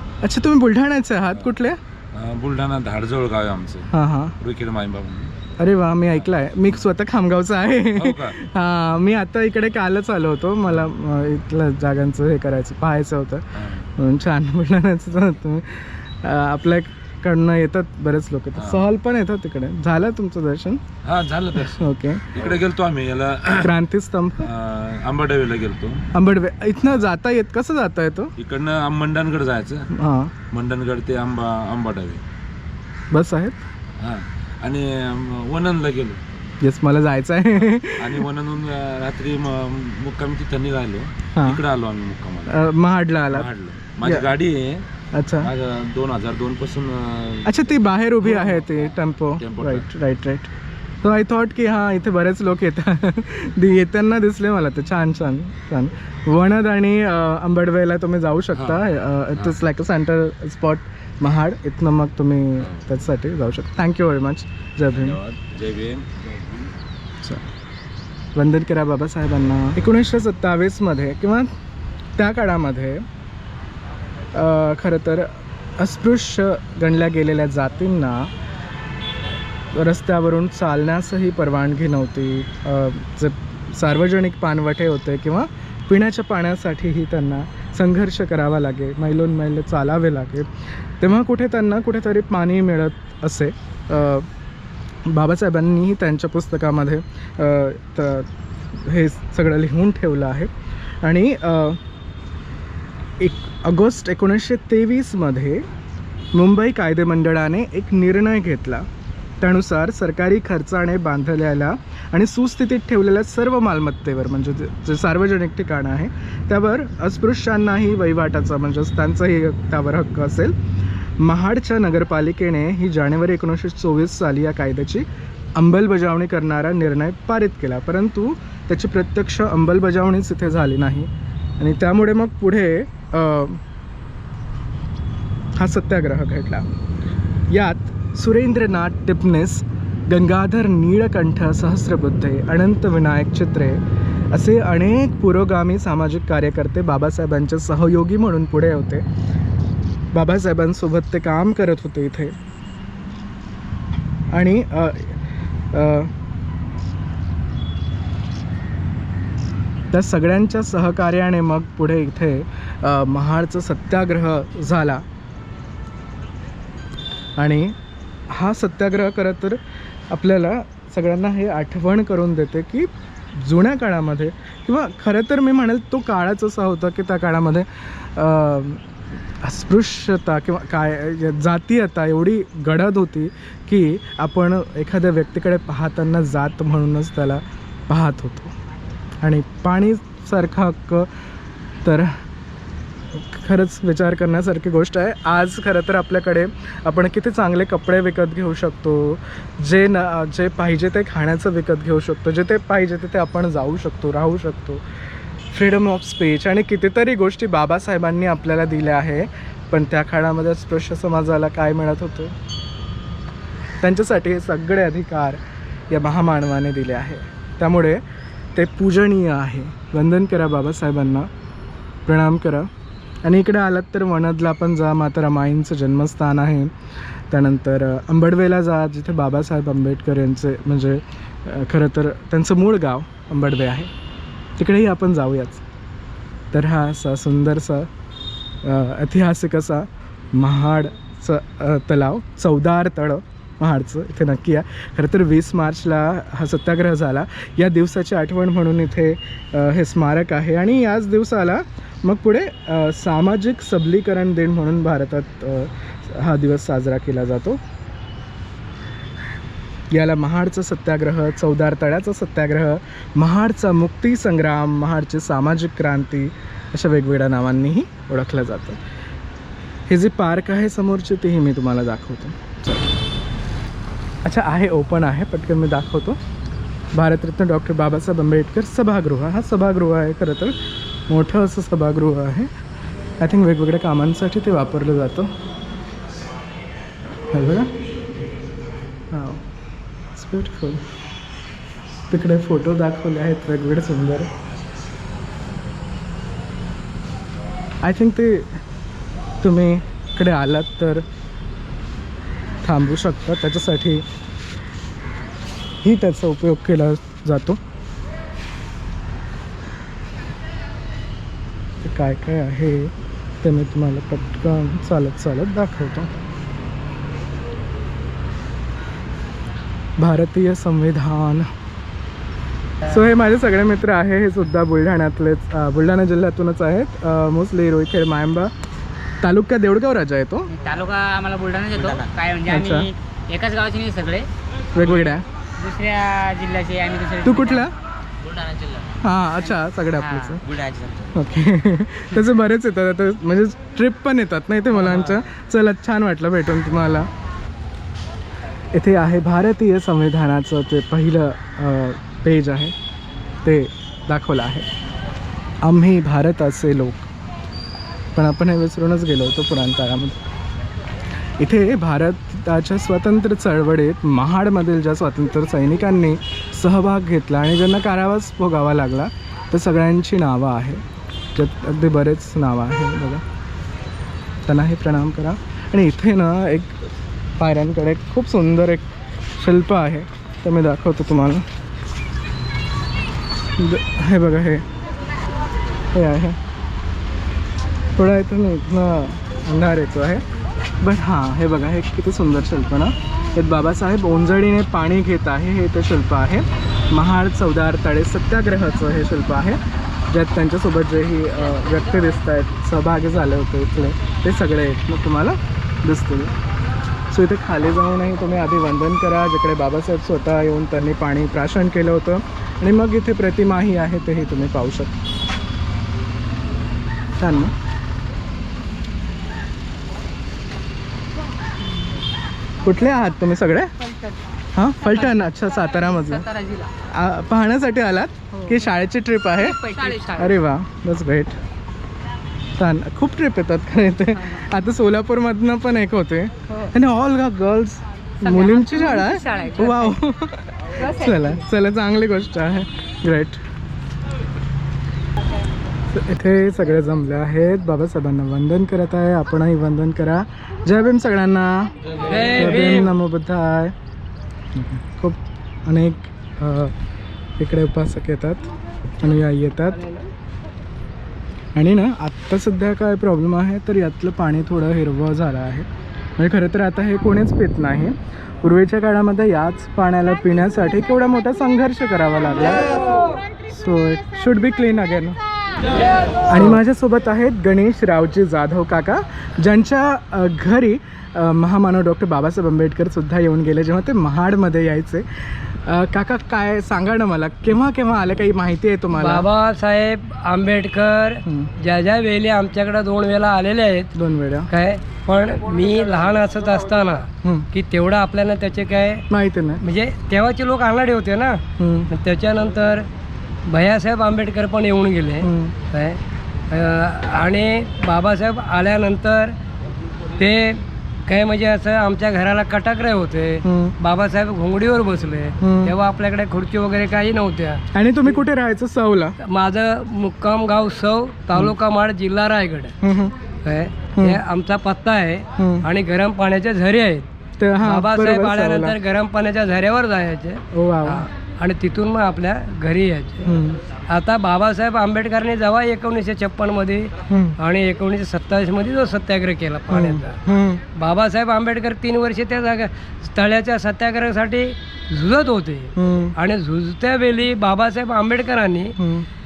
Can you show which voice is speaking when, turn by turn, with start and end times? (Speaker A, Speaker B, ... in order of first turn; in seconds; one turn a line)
Speaker A: 0.2-1.8
Speaker B: 2.1-3.9
Speaker A: 3.9-4.3
Speaker B: 4.4-5.3
Speaker A: 5.6-20.8
Speaker B: 8.0-8.4
Speaker B: 13.6-13.8
Speaker B: 18.6-18.9
Speaker B: 21.0-23.7
Speaker A: 21.7-22.4
Speaker A: 23.6-24.5
Speaker B: 24.4-26.1
Speaker A: 26.1-28.3
Speaker B: 28.4-29.9
Speaker A: 29.9-30.3
Speaker B: 30.5-32.2
Speaker A: 33.1-33.6
Speaker B: 34.0-36.2
Speaker A: 36.6-38.2
Speaker B: 38.0-42.6
Speaker A: 41.4-41.6
Speaker A: 42.5-43.5
Speaker B: 43.3-44.9
Speaker A: 45.1-45.5
Speaker B: 45.4-48.7
Speaker A: 47.5-65.2
Speaker B: 49.4-49.9
Speaker B: 58.5-58.9
Speaker B: 64.9-66.7
Speaker A: 68.3-71.5
Speaker A: 72.2-73.0
Speaker A: 74.3-78.3
Speaker A: 79.7-90.5
Speaker A: 91.0-94.3
Speaker A: 95.1-100.5
Speaker A: 101.0-101.8
Speaker A: 103.2-105.7
Speaker A: 106.3-108.9
Speaker A: 109.4-120.5
Speaker A: 121.2-133.6
Speaker A: 135.6-136.7
Speaker A: 137.5-149.0
Speaker A: 150.1-152.3
Speaker A: 154.3-155.2
Speaker A: 155.7-156.1
Speaker A: 159.9-165.1
Speaker A: 167.4-167.8
Speaker A: 168.3-169.6
Speaker A: 170.1-178.8
Speaker A: 179.4-188.5
Speaker A: 189.2-191.1
Speaker A: 191.8-192.2
Speaker A: 193.1-204.8
Speaker A: 205.5-212.3
Speaker A: 213.8-215.4
Speaker A: 215.9-218.0
Speaker A: 218.6-221.3
Speaker A: 222.1-222.7
Speaker A: 223.2-226.7
Speaker A: 227.3-233.9
Speaker A: 234.6-235.6
Speaker A: 236.5-237.9
Speaker A: 238.6-257.6
Speaker A: 259.9-268.8
Speaker A: 269.9-272.9
Speaker A: 274.2-276.2
Speaker A: 276.9-280.6
Speaker A: 281.1-282.5
Speaker A: 283.2-285.4
Speaker A: 287.3-287.7
Speaker A: 289.1-289.4
Speaker A: 290.2-290.9
Speaker A: 292.1-294.3
Speaker A: 297.8-298.6
Speaker A: 299.4-301.1
Speaker A: 302.6-304.0
Speaker A: 305.8-307.6
Speaker A: 311.8-316.1
Speaker A: 320.0-321.5
Speaker A: 322.9-328.5
Speaker A: 329.2-330.5
Speaker C: 330.5-334.3
Speaker A: 332.5-332.9
Speaker A: 334.8-335.2
Speaker C: 334.8-337.7
Speaker A: 337.2-337.7
Speaker C: 338.2-341.2
Speaker A: 339.0-340.4
Speaker A: 341.1-347.1
Speaker C: 344.9-345.2
Speaker A: 348.7-352.8
Speaker A: 353.4-354.7
Speaker A: 355.6-357.1
Speaker A: 358.1-360.2
Speaker A: 361.4-370.8
Speaker A: 371.4-373.2
Speaker A: 374.5-376.9
Speaker A: 377.4-381.4
Speaker A: 383.6-384.7
Speaker A: 385.9-386.4
Speaker A: 388.0-390.2
Speaker A: 390.8-399.6
Speaker A: 400.1-406.3
Speaker A: 407.1-414.9
Speaker A: 417.2-417.5
Speaker A: 422.6-423.8
Speaker A: 424.6-426.3
Speaker A: 426.9-431.4
Speaker A: 432.6-443.4
Speaker A: 445.9-451.8
Speaker D: 452.1-452.9
Speaker A: 452.3-453.7
Speaker A: 454.6-456.7
Speaker A: 457.4-459.9
Speaker A: 461.6-465.7
Speaker A: 466.2-475.2
Speaker A: 476.3-489.2
Speaker D: 488.9-493.9
Speaker A: 491.3-491.5
Speaker A: 493.9-494.5
Speaker D: 494.5-499.1
Speaker A: 499.1-499.6
Speaker D: 499.6-502.9
Speaker A: 501.6-501.9
Speaker D: 503.5-509.4
Speaker A: 505.2-505.5
Speaker D: 510.2-517.7
Speaker A: 513.4-513.8
Speaker A: 515.4-515.7
Speaker A: 517.7-519.2
Speaker D: 519.2-522.8
Speaker A: 522.8-523.1
Speaker D: 523.4-527.1
Speaker A: 524.0-524.2
Speaker A: 525.4-525.7
Speaker A: 527.4-528.8
Speaker D: 527.6-533.4
Speaker A: 530.5-531.1
Speaker A: 533.2-533.6
Speaker D: 533.9-540.2
Speaker A: 537.1-537.4
Speaker A: 539.7-540.6
Speaker D: 540.7-548.8
Speaker A: 545.8-546.1
Speaker A: 548.8-549.1